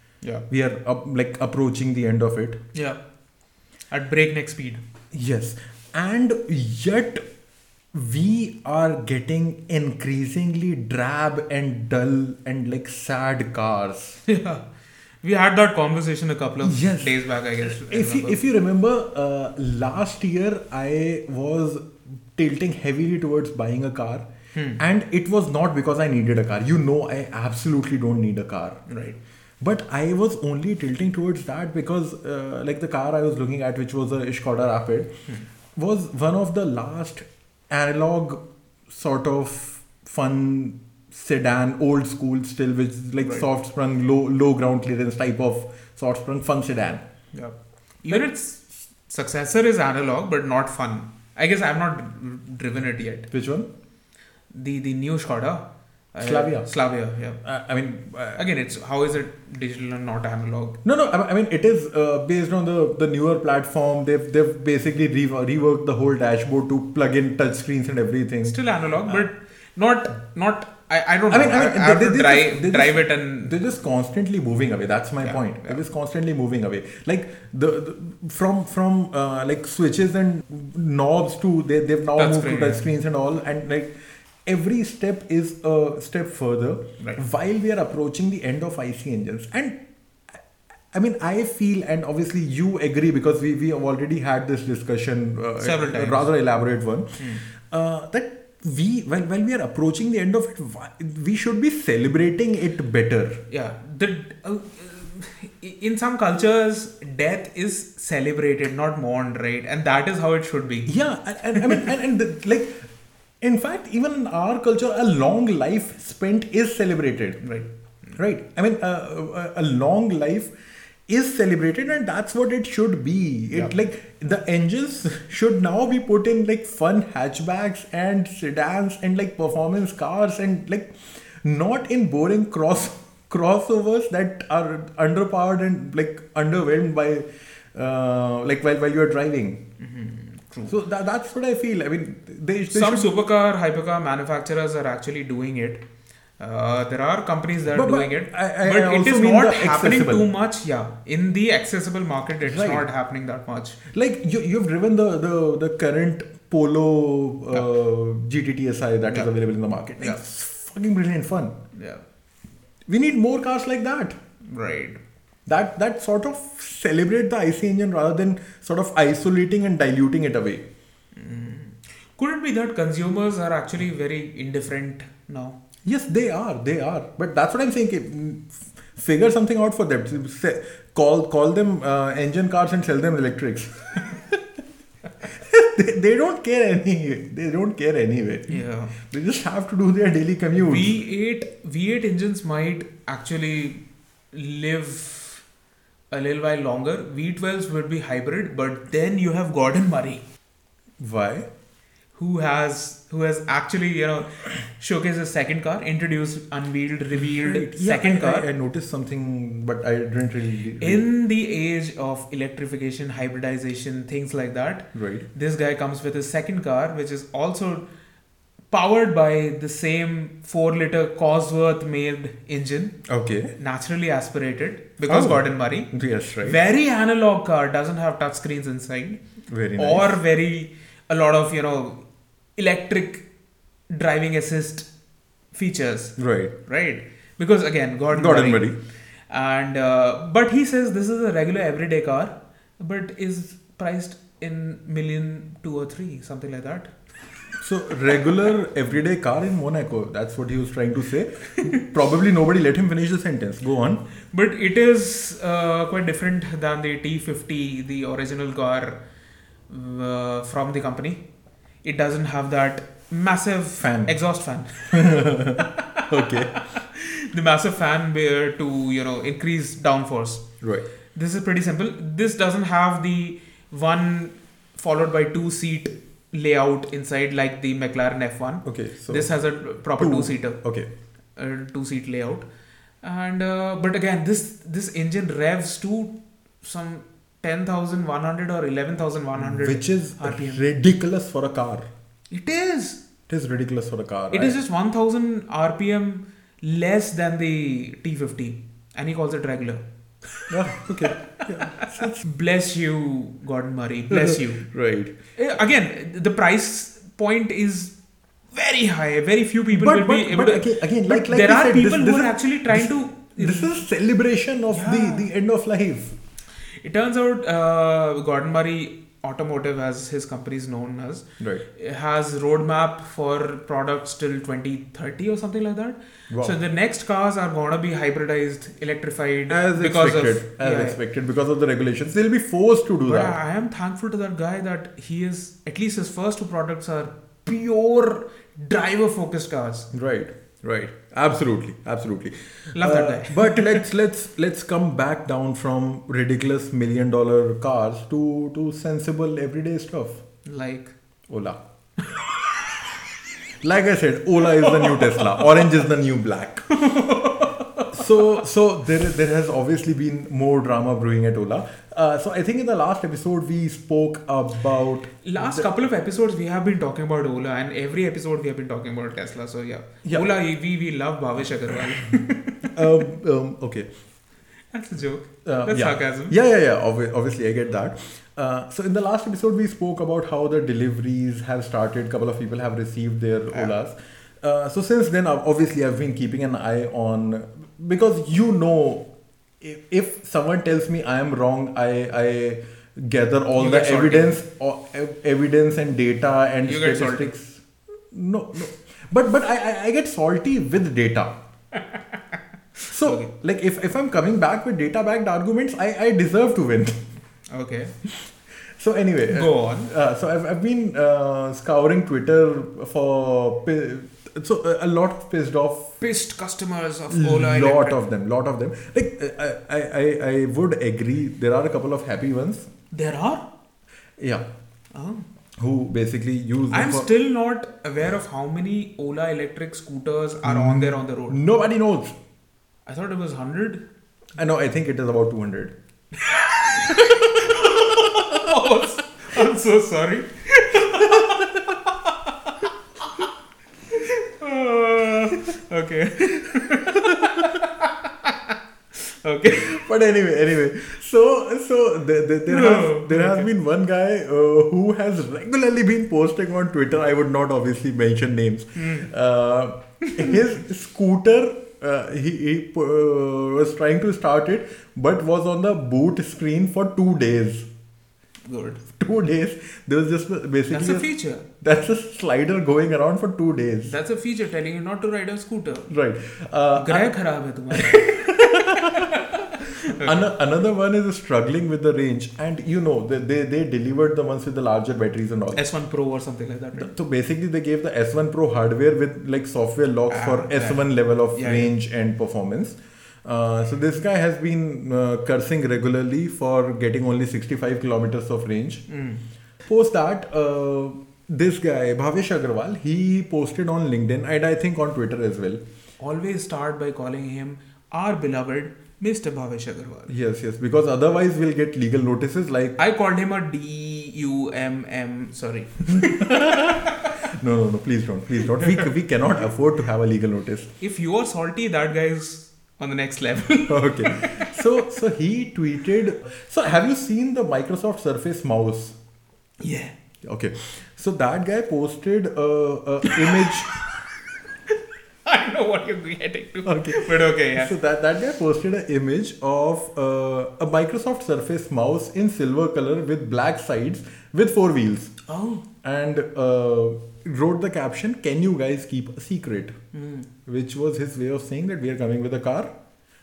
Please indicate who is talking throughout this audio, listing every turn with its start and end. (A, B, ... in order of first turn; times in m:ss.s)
0:00.5-0:02.6 A
0:03.9-0:04.8 B
0:05.1-0:07.2 A
0:07.9-0:14.2 A
0:14.2-0:14.6 B
0:15.2-0:18.4 B
0:16.6-0:24.2 A
0:24.5-0:24.8 B
0:24.8-0:28.8 A
0:28.9-0:29.2 B
0:29.6-0:35.1 A
0:35.8-0:47.0 A
0:47.3-0:53.3 B
0:53.3-0:53.7 A
0:54.5-0:57.4 B
0:56.2-0:56.7 A
0:57.4-0:58.4 A
0:58.4-1:00.8 B
1:00.8-1:09.2 A
1:08.4-1:13.5 B
1:11.3-1:23.9 A
1:15.2-1:15.8 B
1:22.2-1:22.8 B
1:24.4-1:29.8 A
1:30.9-1:43.4 A
1:35.6-1:36.3 B
1:37.2-1:37.4 B
1:43.5-1:50.9 B
1:50.9-1:52.9 A
1:51.5-1:51.9 B
1:53.4-1:57.4 A
1:57.4-1:58.2 B
1:58.2-2:00.5 A
2:01.1-2:19.6 A
2:19.8-2:20.7 B
2:20.7-2:23.1 A
2:22.7-2:25.8 B
2:26.4-2:33.8 B
2:27.7-2:30.3 A
2:32.4-2:32.9 A
2:33.9-2:41.6 A
2:41.7-2:42.0 B
2:42.9-2:44.2 A
2:44.5-2:45.0 B
2:45.5-2:50.6 A
2:51.1-2:55.6 B
2:55.8-3:04.4 A
3:05.2-3:10.9 A
3:08.5-3:09.0 B
3:10.6-3:15.4 B
3:16.1-3:20.2 B
3:21.0-3:21.4 A
3:22.2-3:28.5 B
3:27.4-3:31.0 A
3:30.8-3:37.9 B
3:34.9-3:35.3 A
3:38.7-3:43.0 B
3:43.0-3:43.5 A
3:43.6-3:45.9 B
3:45.1-3:46.6 A
3:46.4-3:49.2 B
3:49.5-3:50.2 A
3:49.8-3:52.0 B
3:52.6-3:53.2 B
3:53.9-3:54.9 B
3:55.5-3:58.7 B
3:56.2-3:56.5 A
3:58.1-3:58.8 A
3:59.3-4:06.9 B
4:07.6-4:14.0 A
4:11.6-4:11.8 B
4:14.3-4:19.0 B
4:19.7-4:21.2 B
4:21.8-4:30.4 B
4:23.8-4:24.1 A
4:24.9-4:26.6 A
4:31.1-4:40.6 B
4:38.6-4:39.3 A
4:40.0-4:40.9 A
4:41.4-4:42.4 B
4:43.0-4:50.6 B
4:49.4-4:51.9 A
4:52.3-4:53.0 B
4:53.3-4:54.6 A
4:54.3-5:04.6 B
5:00.5-5:02.2 A
5:04.1-5:05.1 A
5:05.4-5:07.9 B
5:08.5-5:13.7 B
5:09.7-5:16.1 A
5:14.7-5:15.3 B
5:16.8-5:31.0 B
5:26.3-5:26.6 A
5:29.5-5:33.4 A
5:33.0-5:39.9 B
5:39.9-5:50.2 A
5:42.7-5:43.9 B
5:50.4-5:50.9 B
5:51.3-5:51.6 A
5:53.6-5:56.6 A
5:54.5-5:55.6 B
5:56.7-5:58.3 B
5:57.9-6:05.7 A
6:05.2-6:13.0 B
6:10.0-6:10.3 A
6:12.7-6:13.9 A
6:14.7-6:16.3 B
6:15.4-6:29.0 A
6:29.6-6:41.4 A
6:33.6-6:34.4 B
6:36.6-6:37.3 B
6:41.7-6:43.3 B
6:42.9-6:47.0 A
6:47.5-6:47.9 B
6:48.0-6:55.9 A
6:49.3-6:49.9 B
6:56.0-6:58.0 B
6:57.1-7:02.7 A
7:02.9-7:03.4 B
7:04.2-7:04.4 A
7:04.9-7:05.2 B
7:05.6-7:07.1 A
7:06.7-7:11.4 B
7:10.4-7:12.2 A
7:12.9-7:13.8 B
7:14.4-7:15.7 A
7:16.2-7:23.3 B
7:16.8-7:18.7 A
7:20.9-7:21.8 A
7:23.9-7:29.9 B
7:26.8-7:27.6 A
7:29.5-7:47.7 A
7:32.5-7:33.5 B
7:38.8-7:39.1 B
7:40.0-7:40.4 B
7:48.4-7:48.8 B
7:48.9-7:51.1 A
7:50.7-7:51.4 B
7:51.6-7:53.9 A
7:53.9-7:55.9 B
7:55.9-7:57.2 A
7:56.7-8:00.3 B
7:57.7-8:05.6 A
8:05.6-8:06.9 B
8:06.8-8:18.8 A
8:10.1-8:11.7 B
8:18.9-8:19.2 B
8:19.6-8:25.6 A
8:26.0-8:30.1 B
8:30.1-8:32.8 A
8:32.8-8:37.1 B
8:35.9-8:40.7 A
8:40.8-8:44.8 B
8:43.7-8:49.0 A
8:49.6-8:49.9 B
8:50.2-8:53.7 A
8:53.0-8:53.8 B
8:55.2-8:57.7 B
8:56.6-9:05.1 A
9:05.3-9:05.6 B
9:05.8-9:09.7 A
9:09.9-9:10.3 B
9:10.4-9:12.7 A